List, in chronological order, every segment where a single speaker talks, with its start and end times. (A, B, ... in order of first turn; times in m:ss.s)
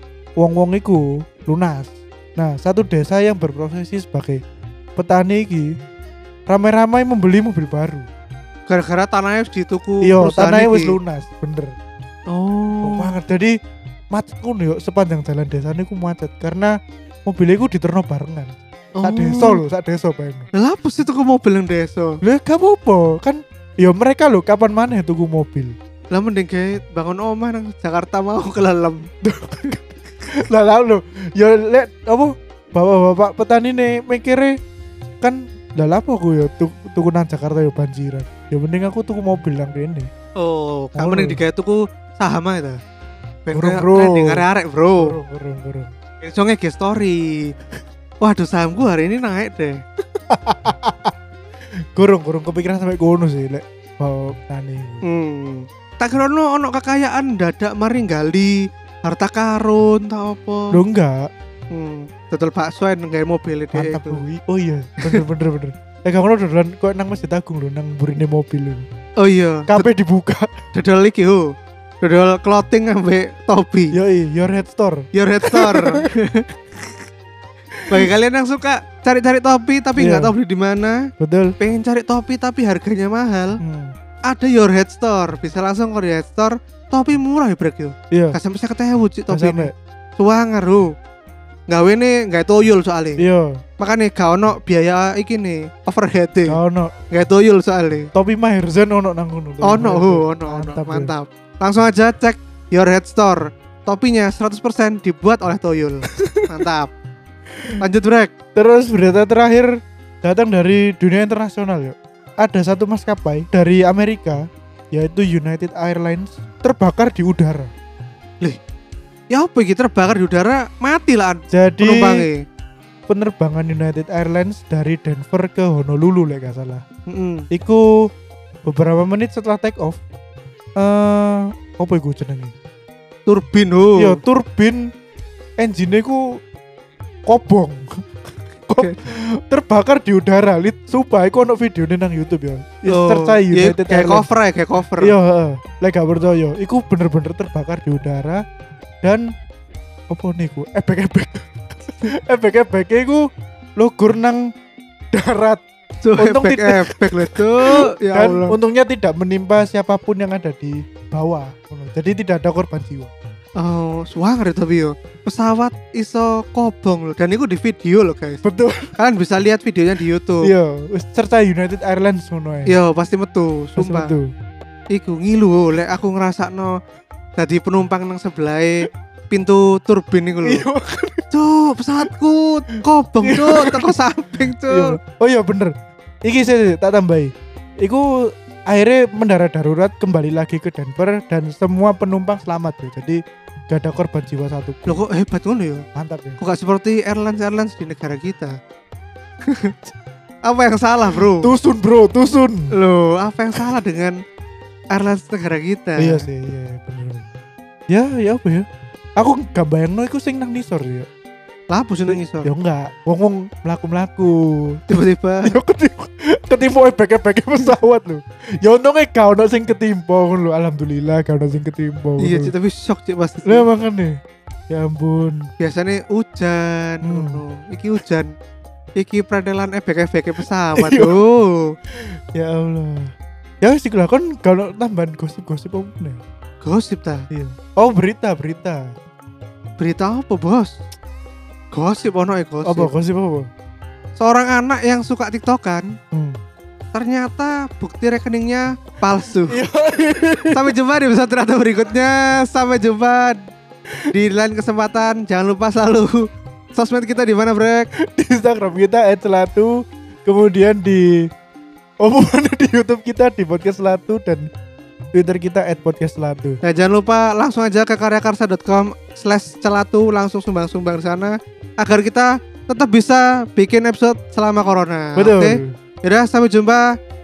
0:00.4-0:04.4 A
0:05.0-0:05.7 A
0:06.5-0:08.1 A
0:08.7-0:11.0 B
0:10.0-0:11.8 A
0:12.3-0:13.2 B
0:12.8-0:13.5 A
0:14.1-0:20.5 A
0:19.0-0:19.6 B
0:20.5-0:22.1 B
0:22.2-0:25.7 A
0:26.1-0:29.0 B
0:29.2-0:34.6 A
0:35.2-0:40.1 A
0:40.4-0:42.8 B
0:41.0-0:41.4 A
0:43.5-0:45.1 B
0:43.5-0:44.4 A
0:45.0-0:45.9 A
0:46.2-0:47.5 B
0:48.2-0:49.8 B
0:50.3-0:51.1 A
0:51.9-0:55.0 A
0:55.0-1:00.7 B
1:00.7-1:01.3 A
1:01.7-1:04.2 B
1:03.7-1:08.8 A
1:09.2-1:09.9 B
1:09.7-1:10.5 A
1:10.7-1:11.5 B
1:12.0-1:13.9 B
1:13.9-1:16.1 A
1:15.1-1:16.9 B
1:17.8-1:18.1 A
1:17.9-1:21.0 B
1:20.0-1:20.3 A
1:21.2-1:21.5 A
1:21.6-1:23.6 B
1:23.6-1:23.9 A
1:24.3-1:30.9 B
1:28.1-1:28.4 A
1:29.3-1:29.7 A
1:31.7-1:33.2 B
1:33.2-1:33.6 A
1:33.8-1:36.6 B
1:36.5-1:36.9 A
1:37.1-1:38.1 B
1:38.1-1:41.1 A
1:39.6-1:46.9 B
1:46.1-1:46.5 A
1:47.8-1:48.3 B
1:48.6-1:57.7 A
1:59.3-2:02.4 B
2:01.5-2:02.2 A
2:03.1-2:06.8 A
2:07.1-2:07.4 B
2:07.5-2:07.9 A
2:08.6-2:10.0 A
2:10.8-2:12.5 A
2:13.3-2:14.2 B
2:14.0-2:14.9 A
2:15.6-2:16.4 A
2:17.3-2:17.9 A
2:18.7-2:24.2 A
2:22.9-2:25.2 B
2:25.0-2:28.4 A
2:29.0-2:29.3 A
2:30.1-2:33.2 A
2:33.8-2:34.5 A
2:35.1-2:35.6 A
2:36.0-2:38.6 B
2:36.2-2:43.1 A
2:43.6-2:48.4 B
2:48.4-2:48.9 A
2:49.0-2:50.5 B
2:50.4-2:52.8 A
2:52.7-2:54.1 B
2:53.8-2:54.3 A
2:54.9-2:56.7 B
2:57.4-3:00.6 B
3:00.4-3:01.2 A
3:01.3-3:05.0 B
3:02.7-3:05.7 A
3:06.2-3:15.0 A
3:14.9-3:15.8 B
3:16.0-3:16.4 A
3:16.4-3:18.5 B
3:19.5-3:19.7 B
3:20.4-3:21.5 B
3:21.4-3:22.7 A
3:22.7-3:24.2 B
3:24.9-3:26.2 B
3:26.0-3:27.3 A
3:27.9-3:28.7 A
3:29.2-3:31.1 A
3:31.7-3:32.5 B
3:32.1-3:34.8 A
3:34.9-3:35.5 B
3:35.4-3:42.5 A
3:42.2-3:43.6 B
3:43.4-3:44.1 A
3:44.7-3:45.5 A
3:45.6-3:48.3 B
3:47.0-3:47.4 A
3:49.0-3:51.7 B
3:50.8-3:51.2 A
3:51.9-3:56.2 A
3:56.6-3:57.2 B
3:57.3-3:58.9 A
3:59.8-4:00.8 B
4:01.7-4:02.9 B
4:02.6-4:03.5 A
4:04.2-4:05.9 B
4:06.1-4:06.4 A
4:06.9-4:09.6 B
4:09.5-4:10.7 A
4:10.5-4:13.4 B
4:14.1-4:16.2 B
4:16.7-4:17.9 B
4:18.0-4:21.3 A
4:22.0-4:24.5 A
4:25.1-4:26.6 A
4:26.6-4:36.8 B
4:35.2-4:35.7 A